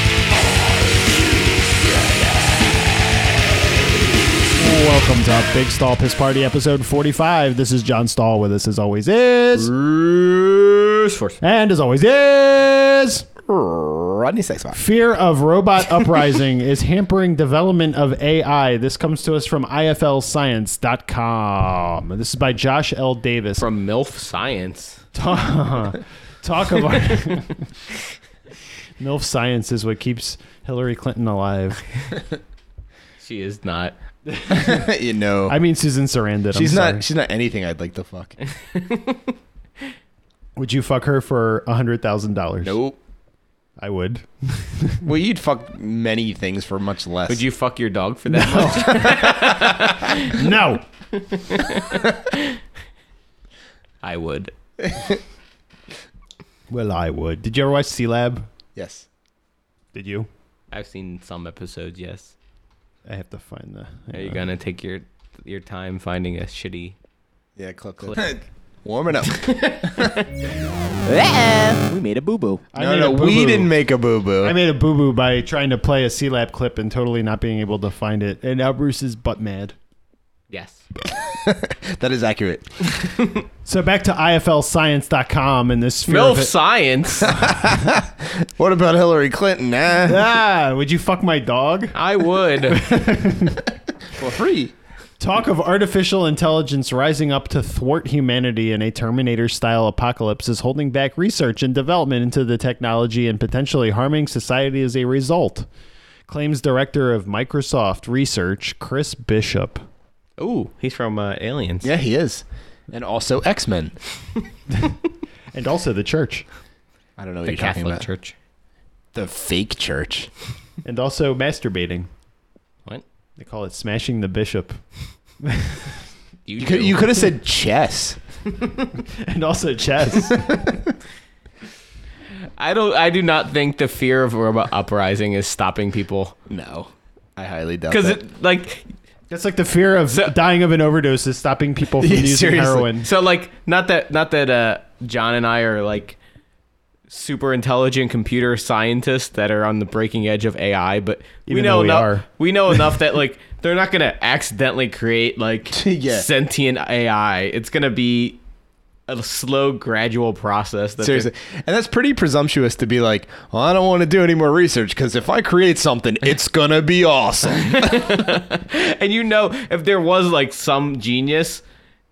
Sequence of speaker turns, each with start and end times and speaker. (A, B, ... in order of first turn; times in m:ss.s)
0:01.7-0:02.7 A
0:03.4-0:04.1 A
0:04.6-0:09.7 B
0:09.6-0:11.4 C
0:11.4-0:13.3 B
0:13.4-0:14.8 A
0:14.7-0:23.6 B
0:23.6-0:25.0 C
0:25.2-0:27.7 B
0:29.0-0:31.8 B
0:33.2-0:34.0 C
0:34.3-0:34.9 B
0:34.5-0:35.6 A
0:35.5-0:37.0 B
0:36.5-0:38.4 A
0:38.5-0:39.3 C
0:40.6-0:42.8 B
0:42.6-0:43.0 A
0:43.8-0:45.1 B
0:45.0-0:47.4 A
0:47.3-0:50.4 C
0:48.3-0:49.6 B
0:49.0-0:49.9 A
0:50.2-0:50.8 B
0:51.1-0:52.6 C
0:54.0-0:54.5 C
0:54.8-0:55.2 A
0:56.7-0:58.5 B
0:58.8-0:59.1 A
0:59.9-1:00.3 B
1:00.7-1:02.3 C
1:03.1-1:04.4 B
1:04.1-1:07.0 C
1:07.6-1:10.1 A
1:08.0-1:08.3 C
1:09.3-1:10.3 C
1:11.0-1:12.6 C
1:12.7-1:13.7 B
1:12.7-1:14.6 A
1:14.4-1:19.8 B
1:20.5-1:20.8 C
1:21.1-1:22.8 A
1:23.0-1:23.4 C
1:23.6-1:26.5 B
1:26.1-1:27.4 C
1:27.3-1:30.2 A
1:30.0-1:32.0 B
1:31.9-1:32.8 C
1:32.6-1:33.7 B
1:34.1-1:34.7 A
1:35.2-1:45.7 B
1:46.3-1:49.8 B
1:50.4-1:51.9 C
1:51.8-1:54.0 A
1:55.5-1:56.4 B
1:57.2-1:58.1 A
1:57.4-1:58.4 C
1:59.1-2:00.3 A
2:00.8-2:02.1 B
2:03.4-2:04.8 B
2:05.4-2:06.0 B
2:06.5-2:07.1 C
2:06.6-2:08.2 A
2:09.0-2:10.8 B
2:12.6-2:16.4 C
2:16.5-2:18.2 A
2:17.9-2:18.9 C
2:19.3-2:23.1 B
2:22.0-2:22.9 A
2:23.0-2:26.2 C
2:27.1-2:38.4 C
2:31.5-2:32.2 B
2:35.7-2:36.3 A
2:39.1-2:41.3 C
2:41.0-2:48.3 A
2:47.6-2:51.6 C